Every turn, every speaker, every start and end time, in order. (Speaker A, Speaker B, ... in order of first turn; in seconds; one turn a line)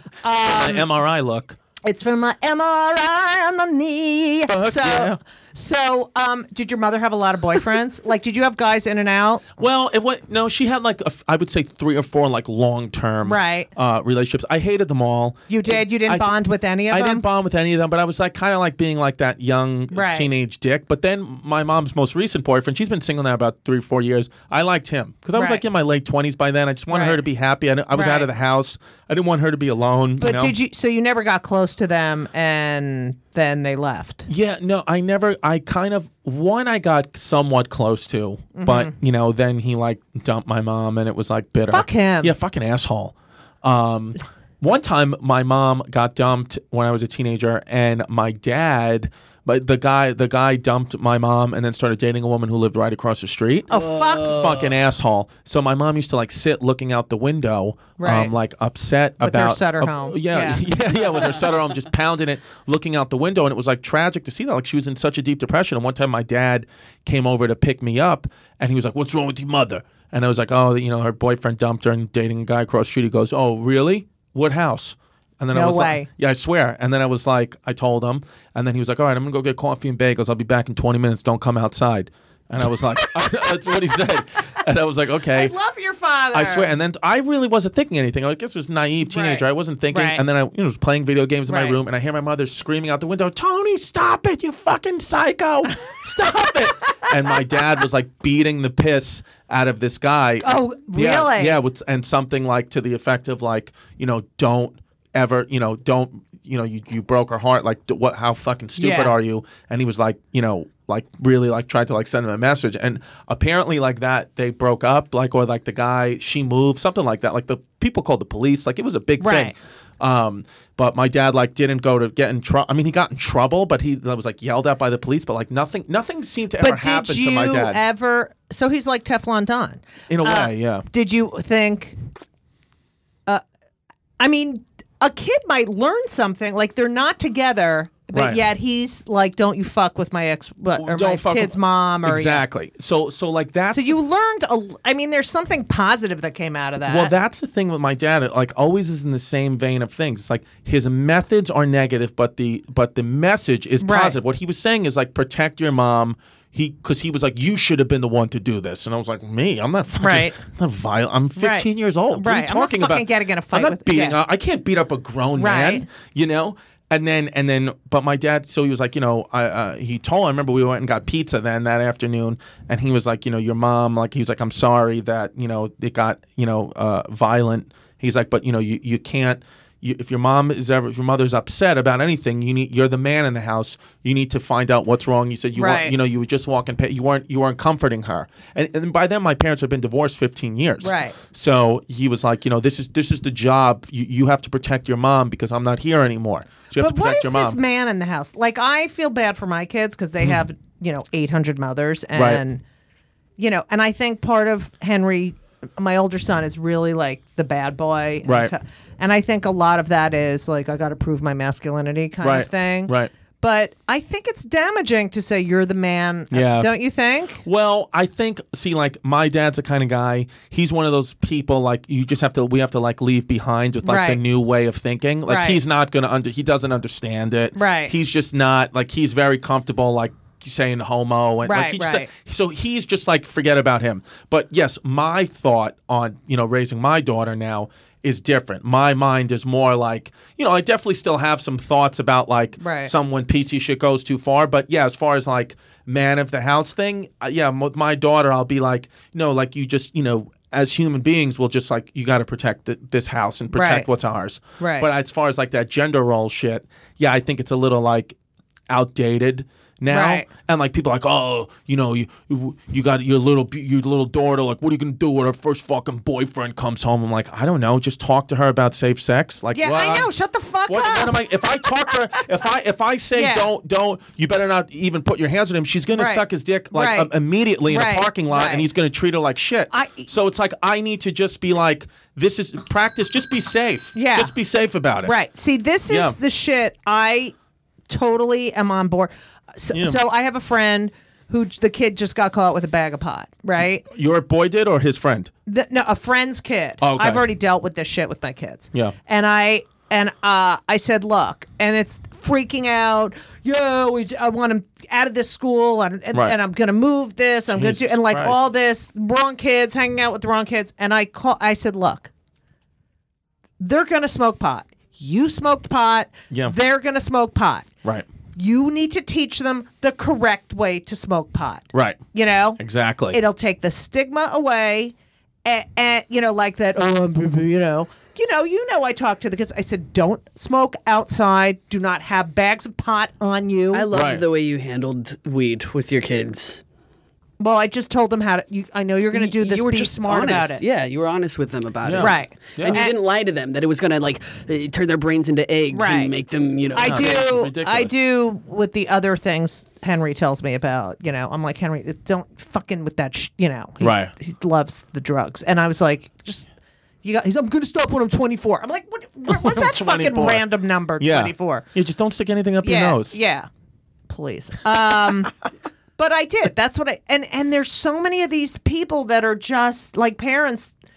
Speaker A: 0.2-0.9
Speaker B: 0.5-1.6
Speaker A: 1.9-9.5
Speaker B: 4.5-5.2
Speaker B: 9.6-16.4
Speaker A: 13.2-13.7
Speaker A: 15.5-17.2
Speaker B: 16.9-30.6
Speaker A: 19.9-20.3
Speaker A: 25.3-25.6
Speaker A: 26.9-27.2
Speaker A: 27.9-28.3
Speaker A: 30.2-34.3
Speaker B: 34.3-85.5
Speaker A: 38.6-38.9
Speaker A: 41.7-42.3
Speaker A: 53.7-54.4
Speaker C: 53.7-54.7
Speaker A: 58.0-58.3
Speaker A: 59.2-60.6
Speaker A: 75.5-76.1
Speaker A: 85.3-86.7
Speaker B: 86.3-127.8
Speaker A: 89.0-90.2
Speaker A: 91.5-91.8
Speaker A: 100.4-101.6
Speaker A: 108.8-109.2
Speaker A: 119.2-119.5
Speaker A: 126.6-132.0
Speaker B: 130.1-130.9
Speaker A: 134.2-142.4
Speaker B: 138.1-138.4
Speaker B: 140.8-144.0
Speaker A: 143.7-147.2
Speaker B: 146.9-197.6
Speaker A: 153.8-154.2
Speaker A: 160.0-160.4
Speaker A: 161.4-164.2
Speaker A: 165.4-165.9
Speaker A: 185.6-185.9
Speaker A: 190.8-191.2
Speaker A: 196.8-202.6
Speaker B: 202.2-202.4
Speaker A: 203.4-217.4
Speaker B: 208.2-208.5
Speaker B: 212.2-213.1
Speaker B: 216.3-216.7
Speaker B: 217.4-258.2
Speaker A: 223.8-224.2
Speaker A: 225.3-225.6
Speaker A: 227.6-227.9
Speaker A: 231.4-232.1
Speaker A: 242.6-242.9
Speaker A: 253.5-253.9
Speaker A: 254.6-254.9
Speaker B: 258.7-270.1
Speaker A: 259.9-260.3
Speaker A: 269.5-271.2
Speaker B: 270.7-285.1
Speaker A: 273.1-273.5
Speaker A: 275.9-277.1
Speaker A: 277.7-278.7
Speaker A: 279.7-280.1
Speaker A: 283.9-284.3
Speaker A: 285.0-287.3
Speaker B: 285.9-286.2
Speaker A: 287.9-293.9
Speaker B: 289.7-290.0
Speaker B: 293.9-295.3
Speaker A: 295.5-312.1
Speaker B: 296.8-297.2
Speaker B: 307.5-308.4
Speaker A: 313.6-317.7
Speaker B: 316.3-316.6
Speaker A: 318.4-324.9
Speaker B: 321.7-322.0
Speaker B: 322.6-323.2
Speaker A: 325.4-333.9
Speaker C: 333.7-336.6
Speaker B: 333.9-334.2
Speaker A: 337.4-340.6
Speaker C: 339.1-347.2
Speaker B: 341.8-342.8
Speaker A: 342.0-342.9
Speaker A: 345.7-346.1
Speaker A: 346.7-356.5
Speaker B: 346.8-347.9
Speaker B: 353.8-354.1
Speaker A: 357.0-361.6
Speaker B: 359.3-360.4
Speaker B: 361.0-363.2
Speaker A: 362.6-363.5
Speaker A: 364.1-365.3
Speaker A: 366.0-370.7